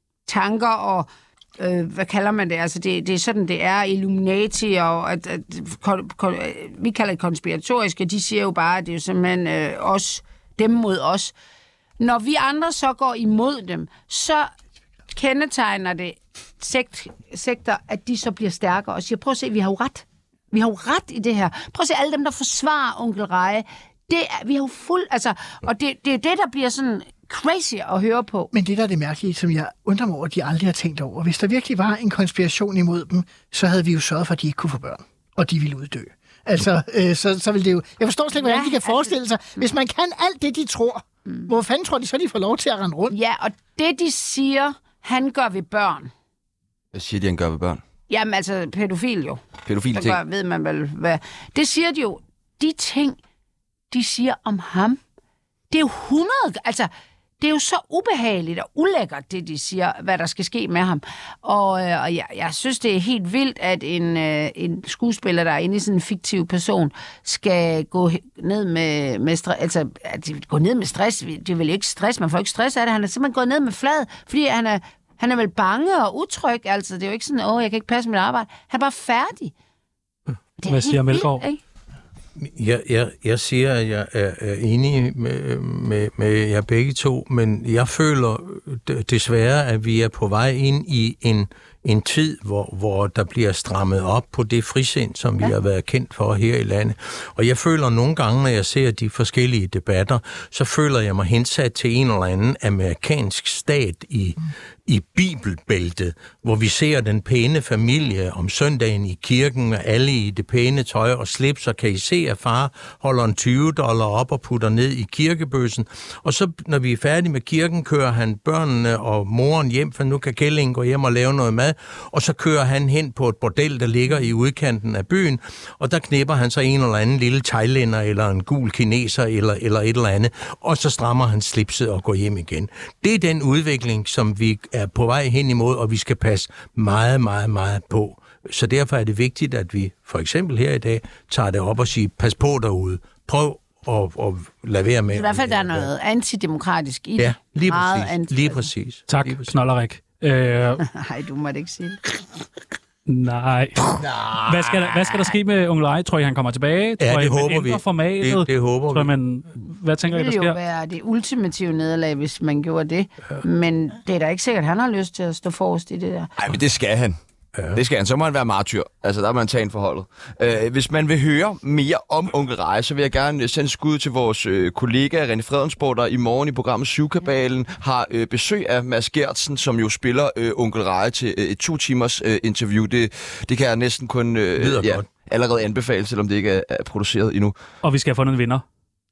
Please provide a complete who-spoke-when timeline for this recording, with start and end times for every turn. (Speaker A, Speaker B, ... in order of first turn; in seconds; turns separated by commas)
Speaker A: 0.3-11.3, Speaker A: 12.0-14.5, Speaker A: 15.1-28.5, Speaker B: 28.5-43.1, Speaker A: 38.4-39.7, Speaker A: 43.1-46.1, Speaker C: 46.9-47.8, Speaker A: 48.1-53.2, Speaker C: 49.6-50.2, Speaker A: 53.9-55.0, Speaker A: 55.7-56.9, Speaker A: 57.4-79.5, Speaker A: 80.6-81.6, Speaker D: 80.7-81.4, Speaker E: 82.4-145.9, Speaker A: 145.1-148.7, Speaker E: 147.2-149.5, Speaker D: 149.1-150.8, Speaker A: 150.8-152.0, Speaker D: 153.1-160.6, Speaker E: 154.0-155.1, Speaker E: 157.0-159.1, Speaker A: 160.1-166.3, Speaker C: 166.4-167.1, Speaker E: 167.6-167.8, Speaker C: 167.7-187.5, Speaker E: 184.6-185.1, Speaker D: 187.8-188.6